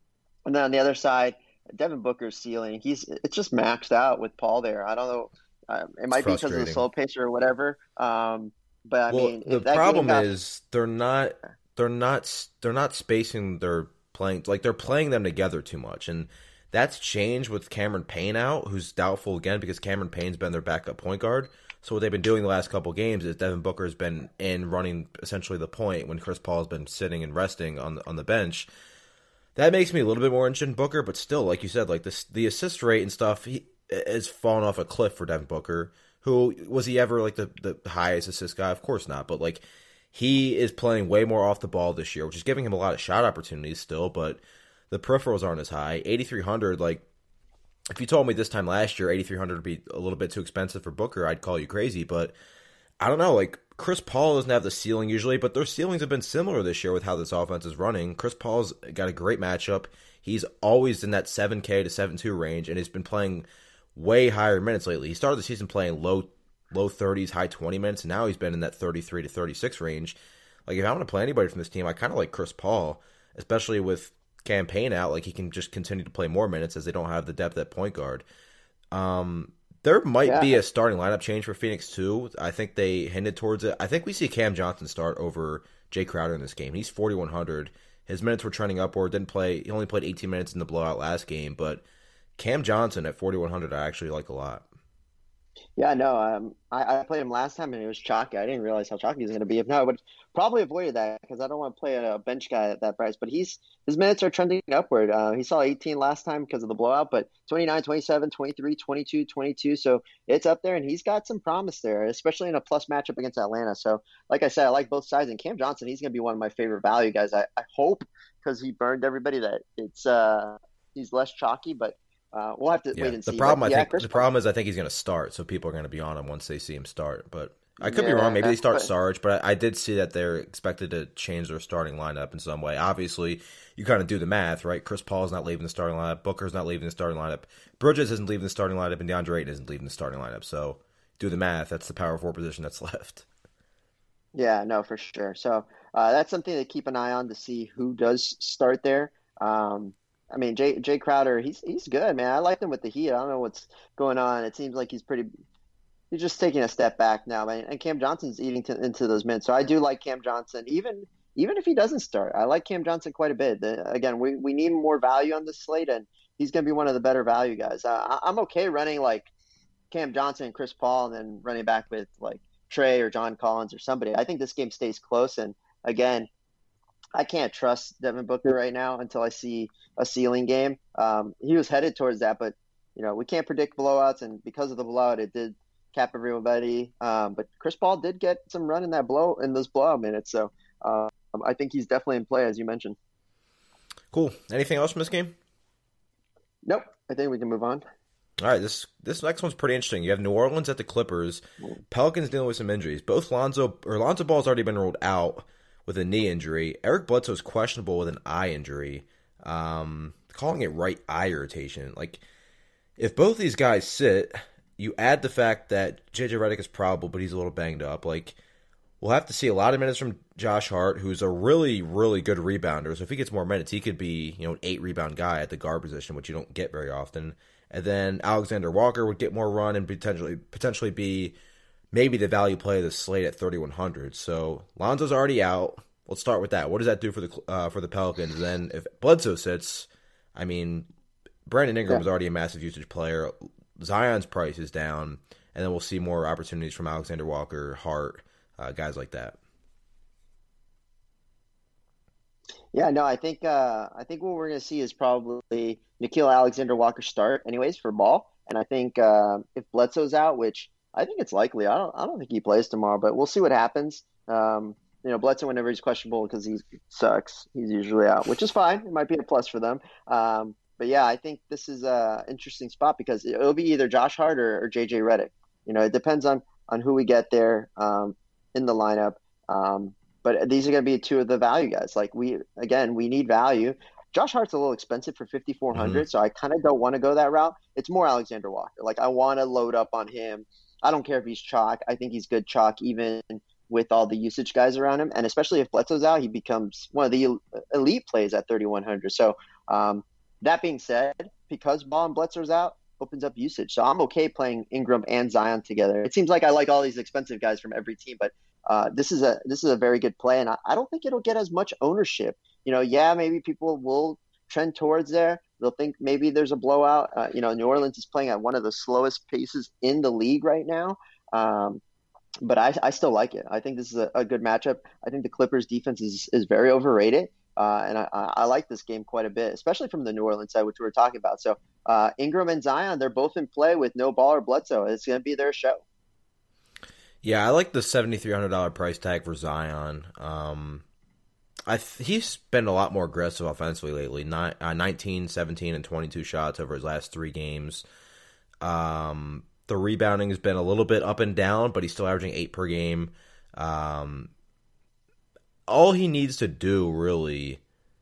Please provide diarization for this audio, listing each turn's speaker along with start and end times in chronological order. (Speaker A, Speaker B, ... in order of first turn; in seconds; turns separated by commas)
Speaker A: 0.4-10.3, Speaker B: 6.1-6.8, Speaker B: 9.1-28.7, Speaker B: 29.6-47.0, Speaker B: 47.9-52.3, Speaker B: 53.0-70.2, Speaker B: 70.7-78.2, Speaker B: 78.9-91.8, Speaker A: 80.2-80.5, Speaker B: 92.4-94.7, Speaker A: 95.8-124.3, Speaker B: 122.9-143.2, Speaker A: 127.8-128.9, Speaker A: 144.3-155.3, Speaker A: 156.1-169.3, Speaker A: 169.9-176.3, Speaker A: 177.1-192.9, Speaker B: 194.1-195.3, Speaker A: 196.6-197.8, Speaker B: 198.4-212.2, Speaker B: 213.0-218.4, Speaker B: 219.0-231.3, Speaker B: 231.9-240.9, Speaker B: 241.4-249.4, Speaker A: 252.7-321.8, Speaker B: 285.7-286.1, Speaker A: 322.4-335.8, Speaker B: 337.2-340.8, Speaker B: 341.7-347.8, Speaker B: 348.6-354.3, Speaker B: 355.7-357.6